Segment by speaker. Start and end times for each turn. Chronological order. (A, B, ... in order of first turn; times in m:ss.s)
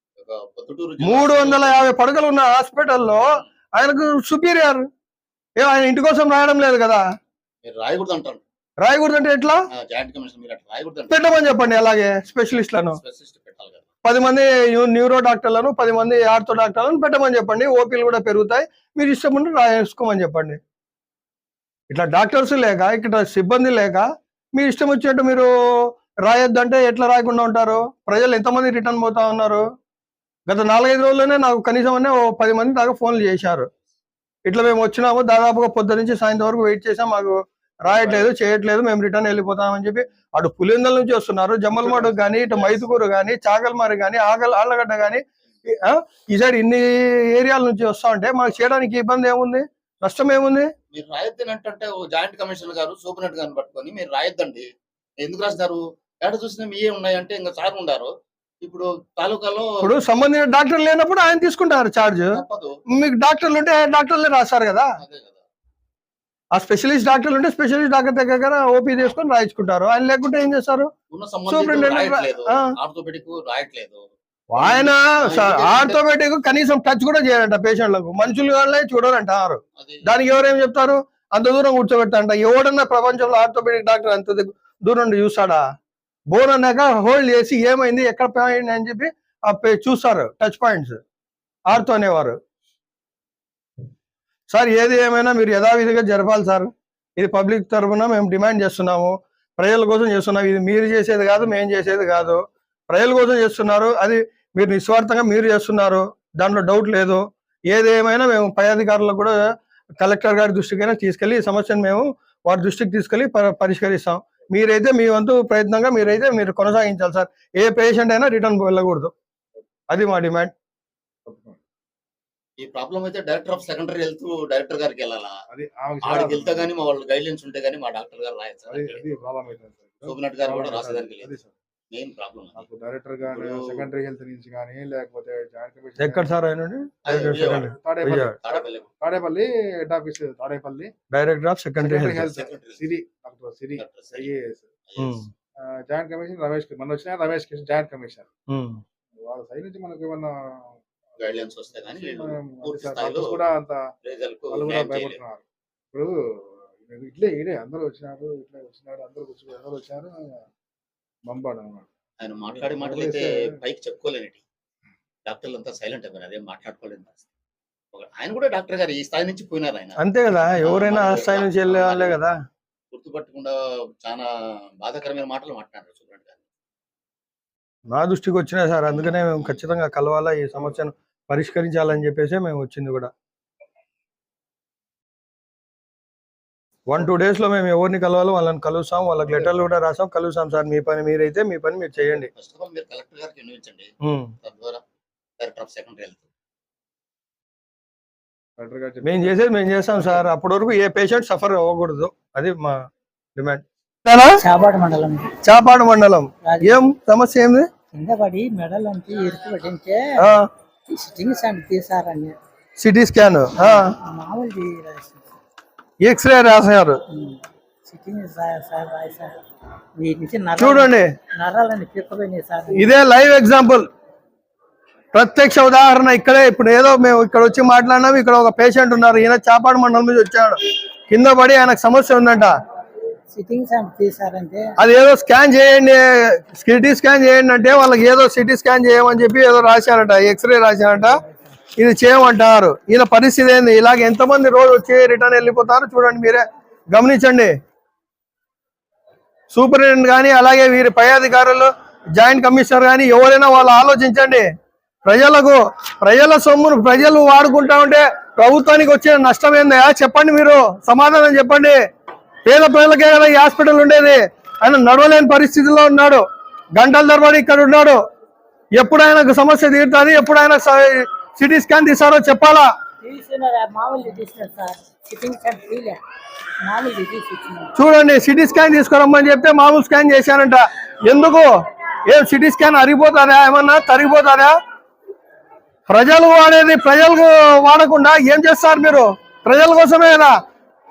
0:00.2-0:01.9 A
0:01.0-0:04.9 B
0:05.6-0:07.0 B
0:07.6-0:08.4 A
0:08.8-0:09.6 B
0:09.7-0:11.2 A
0:11.1-0:13.0 B
0:12.9-0:13.9 A
0:14.0-0:20.6 B
0:21.9-0:29.6 B
0:30.5-0:33.7 B
0:34.5-0:50.7 B
0:37.9-0:38.3 A
0:41.9-0:42.2 C
0:42.1-0:42.8 A
0:50.9-0:54.7 A
0:55.2-0:58.1 A
0:58.6-1:00.0 A
0:59.8-1:04.9 B
1:02.3-1:02.8 A
1:05.0-1:05.4 A
1:06.6-1:10.9 B
1:11.1-1:16.0 A
1:11.5-1:12.7 B
1:14.5-1:25.6 B
1:19.8-1:20.1 A
1:26.3-1:31.0 B
1:31.7-1:32.4 B
1:34.5-1:49.4 B
1:50.0-1:59.1 B
1:59.9-2:00.5 B
2:01.3-2:01.6 C
2:02.6-2:05.4 A
2:05.5-2:06.7 C
2:06.0-2:09.0 A
2:08.7-2:11.5 C
2:10.0-2:11.4 A
2:11.9-2:12.7 A
2:12.6-2:16.3 C
2:13.2-2:13.9 A
2:16.0-2:18.4 B
2:17.0-2:17.7 A
2:17.1-2:20.9 C
2:18.4-2:18.9 A
2:21.1-2:22.3 B
2:21.8-2:24.7 C
2:22.3-2:22.9 A
2:23.8-2:24.3 A
2:24.9-2:25.2 A
2:25.0-2:25.3 B
2:25.6-2:28.3 C
2:28.5-2:28.8 B
2:29.2-2:33.8 C
2:31.2-2:33.4 A
2:34.0-2:35.2 A
2:34.5-2:40.4 C
2:41.3-2:41.9 C
2:42.2-2:44.4 A
2:42.5-2:43.6 C
2:45.3-2:47.2 A
2:47.9-2:50.0 A
2:50.0-2:52.4 B
2:50.6-2:52.2 A
2:52.9-2:54.3 A
2:54.8-2:56.4 A
2:57.9-3:03.1 B
2:59.1-2:59.6 A
3:06.9-3:12.3 B
3:09.2-3:09.5 C
3:12.1-3:13.9 A
3:14.0-3:14.3 B
3:14.4-3:14.8 A
3:15.4-3:16.2 A
3:18.6-3:19.4 C
3:19.0-3:24.4 B
3:20.0-3:20.3 C
3:24.4-3:25.4 D
3:25.4-3:27.7 B
3:26.4-3:26.8 D
3:27.9-3:32.4 D
3:30.2-3:30.5 B
3:32.8-3:34.0 B
3:33.6-3:35.3 D
3:36.0-3:37.0 B
3:37.1-3:39.3 D
3:40.0-3:42.9 D
3:40.6-3:41.1 B
3:42.7-3:43.9 B
3:45.1-3:50.6 B
3:51.1-3:52.6 B
3:53.3-3:54.8 D
3:54.8-4:01.2 B
4:01.8-4:07.5 B
4:09.5-4:14.5 B
4:15.0-4:21.8 B
4:22.4-4:26.2 B
4:26.8-4:28.0 B
4:28.8-4:32.7 B
4:33.0-4:36.0 D
4:36.6-4:37.8 D
4:37.8-4:41.5 B
4:42.1-4:44.6 B
4:45.9-4:50.4 B